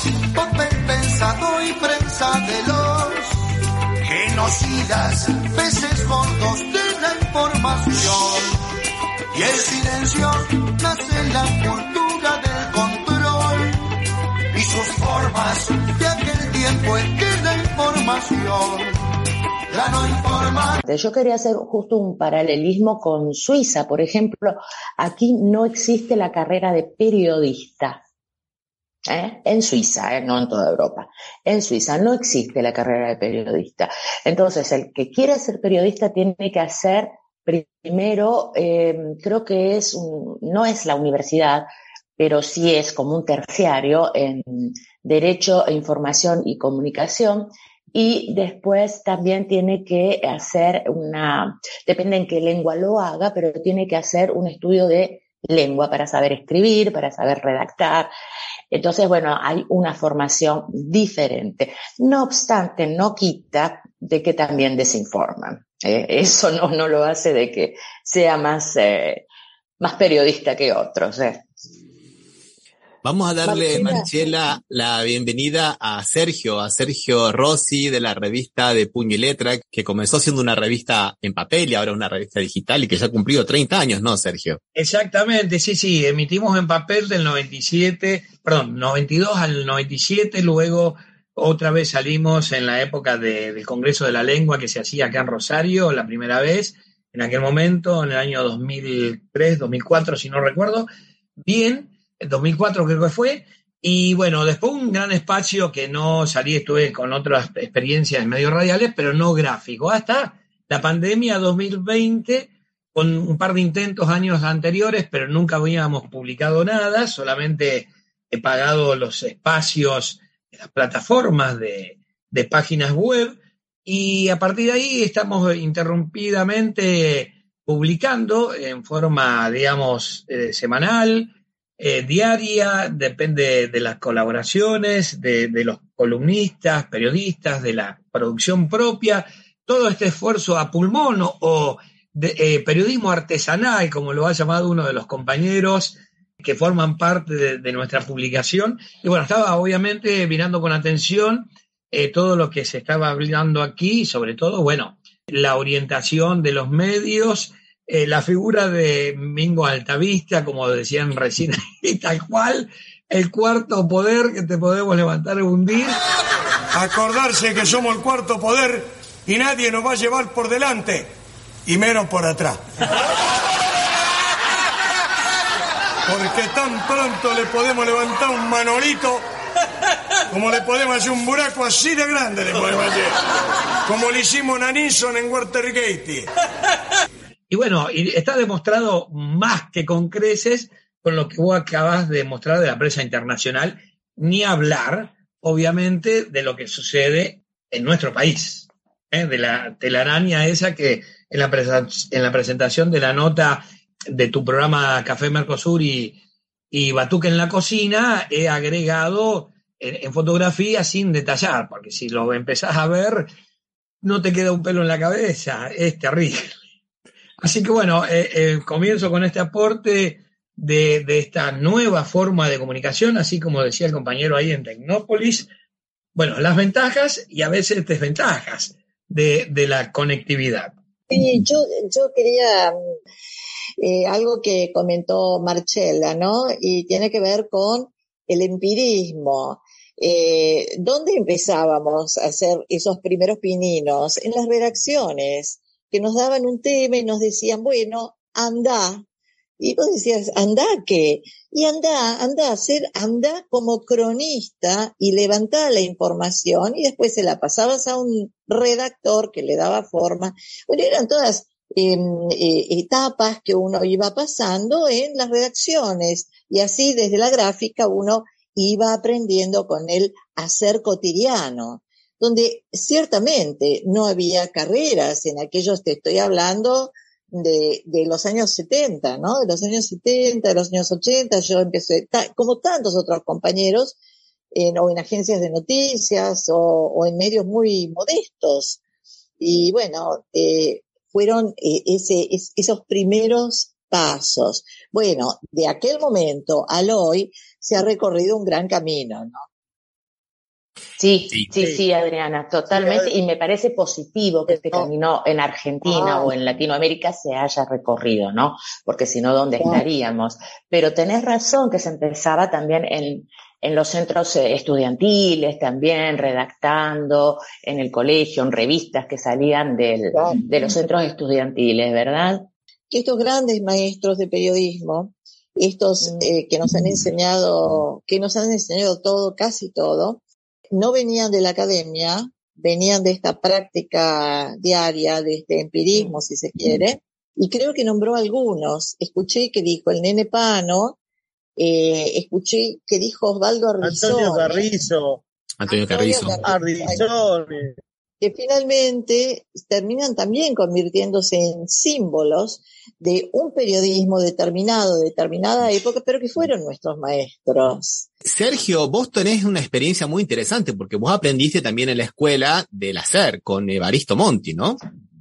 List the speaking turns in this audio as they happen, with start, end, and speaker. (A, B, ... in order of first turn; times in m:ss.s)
0:00.3-0:03.4 A
0:04.1-0:08.6 A
0:09.3-0:13.8 A
0:14.5-0:19.0 A
0:19.7-0:20.8 A
0:20.8-0:28.0 B
0:29.1-0:41.7 B
0:42.2-0:58.1 B
0:58.7-1:09.2 B
1:09.8-1:11.5 B
1:13.0-1:24.6 C
1:13.5-1:14.1 D
1:24.8-1:40.9 E
1:41.5-2:46.0 E
2:46.7-2:51.1 F
2:51.7-2:52.6 F
2:56.1-2:59.2 F
3:00.3-3:03.2 F
3:03.8-3:06.3 F
3:07.5-3:26.2 E
3:26.7-3:33.3 E
3:34.0-3:36.5 E
3:37.4-3:45.5 E
3:46.2-3:50.7 E
3:51.1-3:52.8 D
3:53.8-4:09.0 D
4:09.6-4:44.0 D
4:44.5-4:48.8 D
4:49.4-4:59.4 D
5:01.0-5:22.5 B
5:04.5-5:04.9 D
5:05.8-5:06.3 D
5:09.6-5:09.8 D
5:20.1-5:20.7 D
5:22.9-5:30.2 D
5:30.7-5:41.0 D
5:41.6-5:44.6 D
5:43.8-5:45.2 G
5:45.6-5:46.4 C
5:45.7-5:47.0 D
5:46.4-5:47.7 G
5:48.2-5:58.1 D
5:58.2-6:04.8 C